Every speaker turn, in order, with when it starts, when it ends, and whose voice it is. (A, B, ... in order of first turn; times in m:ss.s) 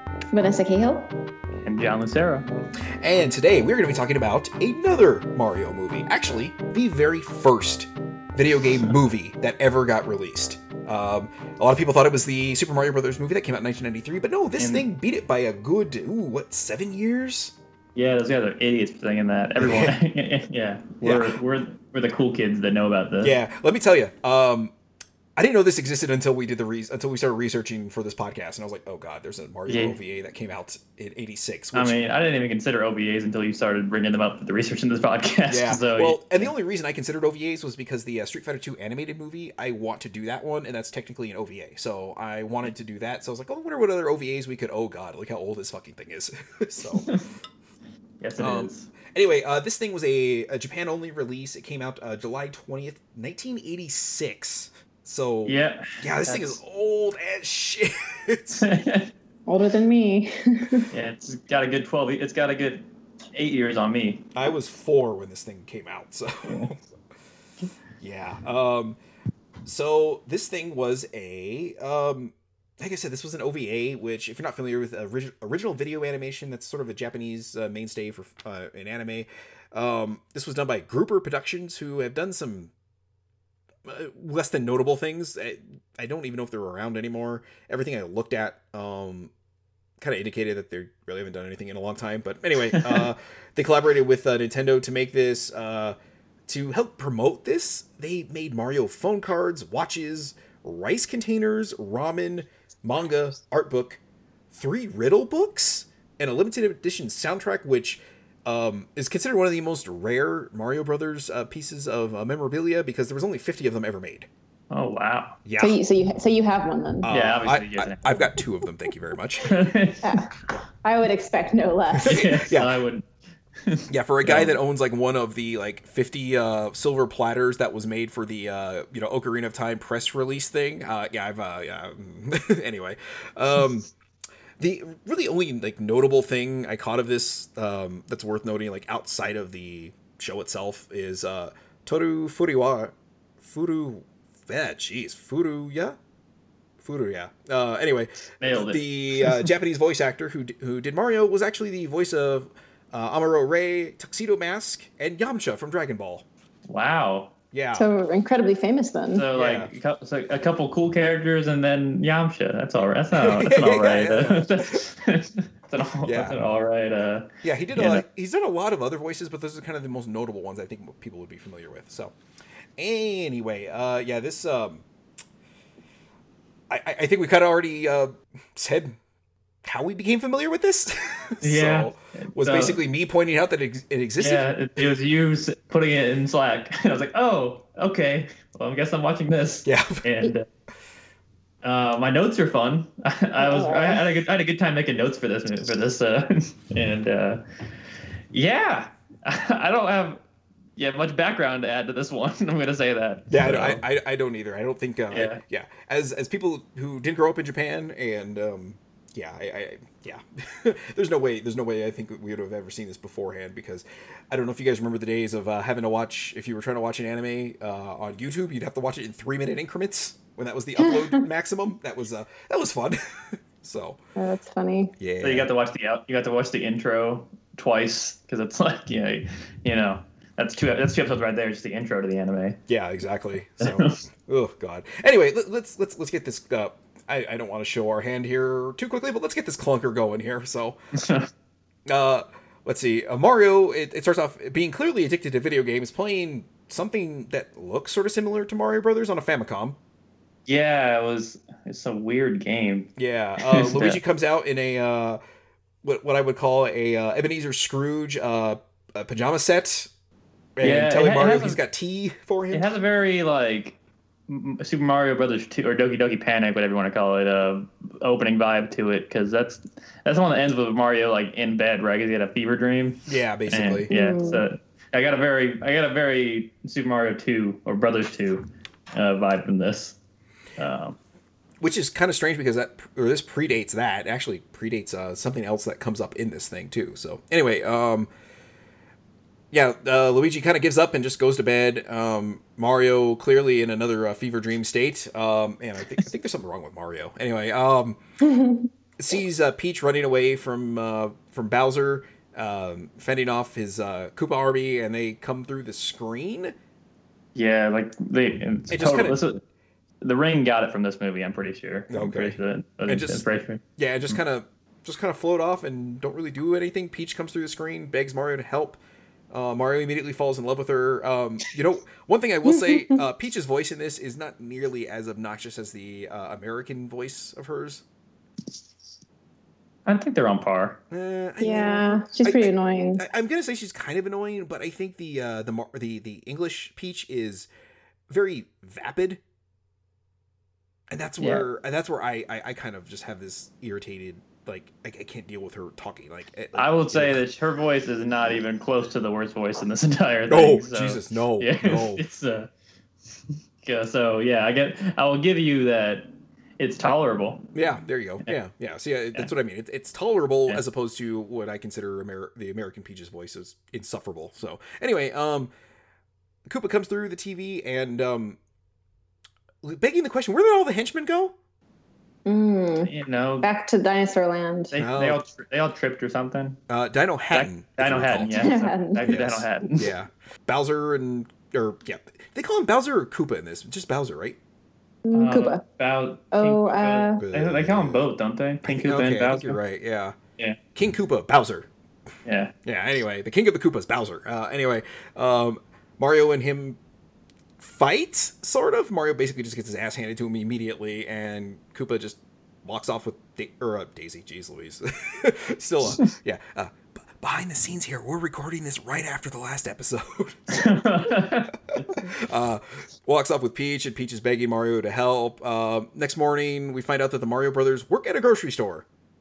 0:00.3-0:01.1 A
0:01.6-0:02.5 B
0:03.0-0:17.6 C
0:14.6-0:14.8 B
0:18.0-0:23.4 B
0:19.6-0:20.0 C
0:21.0-0:21.4 C
0:23.2-0:24.7 C
0:25.4-0:32.0 C
0:29.7-0:30.0 B
0:31.7-0:36.5 B
0:35.5-0:47.1 C
0:46.9-0:47.2 B
0:48.2-0:48.9 B
0:48.4-0:58.7 C
0:55.5-0:56.6 B
0:58.6-0:59.1 B
0:59.5-1:00.9 A
1:00.9-1:04.2 B
1:04.4-1:06.8 C
1:08.0-1:09.0 C
1:09.6-1:22.7 C
1:23.8-1:29.3 C
1:30.0-1:36.0 C
1:36.5-1:44.0 C
1:44.5-1:54.3 C
1:54.7-1:55.4 B
1:55.4-1:55.8 C
1:55.6-1:57.1 A
1:57.0-1:59.5 C
1:57.1-1:58.2 B
1:59.4-2:00.2 B
2:00.0-2:00.3 A
2:00.8-2:02.2 A
2:02.0-2:02.7 C
2:02.0-2:04.6 B
2:03.9-2:13.9 C
2:14.6-2:26.0 C
2:26.8-2:36.3 C
2:28.4-2:29.3 B
2:36.7-2:37.3 B
2:37.5-2:37.9 C
2:37.8-2:39.2 A
2:39.1-2:48.0 B
2:39.3-2:39.7 C
2:43.1-2:44.8 C
2:46.0-2:46.4 C
2:47.4-2:52.2 C
2:52.8-2:54.8 C
2:56.7-2:59.0 C
2:59.6-3:04.5 C
3:01.4-3:02.8 B
3:04.2-3:10.5 B
3:09.6-3:10.0 C
3:11.6-3:17.4 B
3:13.4-3:14.2 A
3:18.3-3:20.2 B
3:20.8-3:23.8 B
3:23.3-3:44.0 C
3:25.1-3:25.4 B
3:40.8-3:41.2 A
3:44.2-3:44.9 A
3:45.0-3:45.5 C
3:45.2-3:52.6 B
3:52.7-4:00.8 C
3:53.6-3:54.0 B
4:01.0-4:01.3 B
4:01.9-4:09.8 C
4:10.5-4:14.0 B
4:13.0-4:15.2 C
4:15.8-4:19.9 C
4:20.6-4:22.7 C
4:20.6-4:21.6 B
4:22.5-4:23.8 B
4:24.3-4:40.0 B
4:33.1-4:33.9 C
4:33.9-4:34.4 A
4:40.6-4:41.0 B
4:41.6-4:48.1 C
4:49.5-4:58.0 C
4:58.2-4:58.7 A
4:59.0-5:06.5 C
5:07.4-5:09.4 B
5:08.7-5:09.2 C
5:10.0-5:14.2 B
5:11.9-5:13.2 C
5:13.8-5:18.8 C
5:19.3-5:27.8 C
5:22.5-5:23.0 A
5:29.9-5:30.8 B
5:30.9-5:37.5 C
5:31.4-5:33.0 A
5:38.1-5:39.2 C
5:40.9-5:47.2 C
5:46.6-5:52.5 B
5:50.3-5:52.0 C
5:53.6-5:57.5 B
5:57.6-6:05.5 C
6:06.5-6:08.4 C
6:09.6-6:11.4 C
6:12.3-6:12.9 A
6:12.8-6:13.5 B
6:13.4-6:14.7 A
6:14.7-6:16.6 B
6:14.8-6:15.2 C
6:16.7-6:18.5 C
6:17.3-6:19.9 B
6:18.3-6:19.1 A
6:19.0-6:24.4 C
6:25.0-6:25.6 A
6:25.1-6:29.6 B
6:26.3-6:27.2 A
6:27.2-6:28.0 C
6:28.6-6:30.2 C
6:30.8-6:31.7 C
6:32.3-6:32.5 B
6:32.7-6:36.8 C
6:37.6-6:50.8 C
6:50.5-6:52.0 B
6:52.1-6:58.8 C